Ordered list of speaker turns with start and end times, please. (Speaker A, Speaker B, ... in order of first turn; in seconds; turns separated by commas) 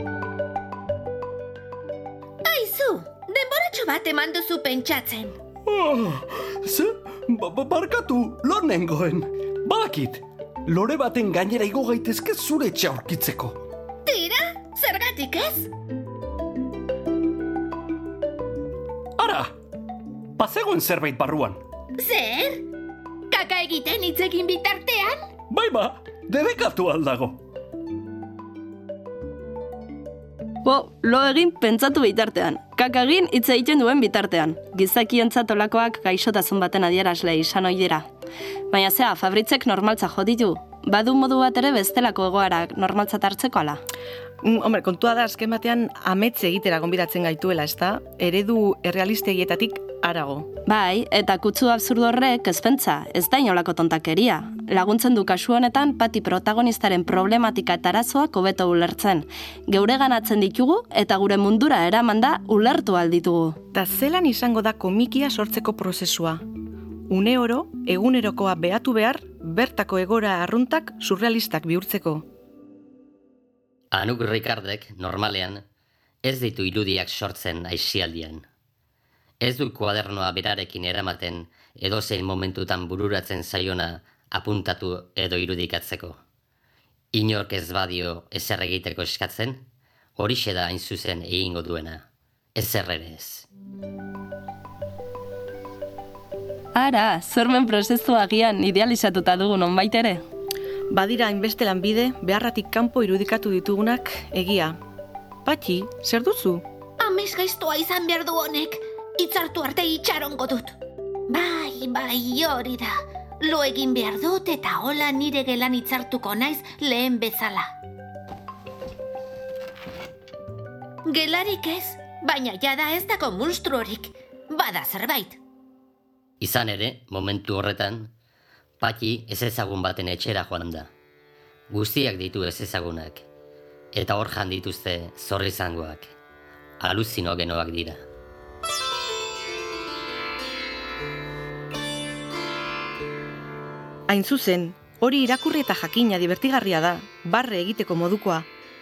Speaker A: 2.4-5.3, Speaker B: 5.7-13.6, Speaker A: 14.0-15.7, Speaker B: 19.2-19.5, Speaker B: 20.4-21.6, Speaker A: 22.0-22.7, Speaker A: 23.3-25.2, Speaker B: 25.5-27.4, Speaker C: 30.6-38.1, Speaker C: 38.7-43.8, Speaker D: 44.4-50.5, Speaker C: 50.7-63.6, Speaker D: 63.7-66.4, Speaker D: 67.1-72.3, Speaker E: 73.9-75.6, Speaker E: 76.2-78.4, Speaker E: 79.4-86.2, Speaker E: 87.1-89.6, Speaker E: 90.2-92.0, Speaker E: 92.5-93.5, Speaker C: 96.7-100.2, Speaker D: 100.9-104.8, Speaker D: 105.5-106.6, Speaker A: 107.0-110.7, Speaker A: 111.3-117.7, Speaker A: 121.0-125.4, Speaker E: 126.4-128.1, Speaker E: 128.8-130.9, Speaker E: 131.7-133.2, Speaker E: 133.9-136.1, Speaker E: 136.8-138.0, Speaker D: 144.1-148.5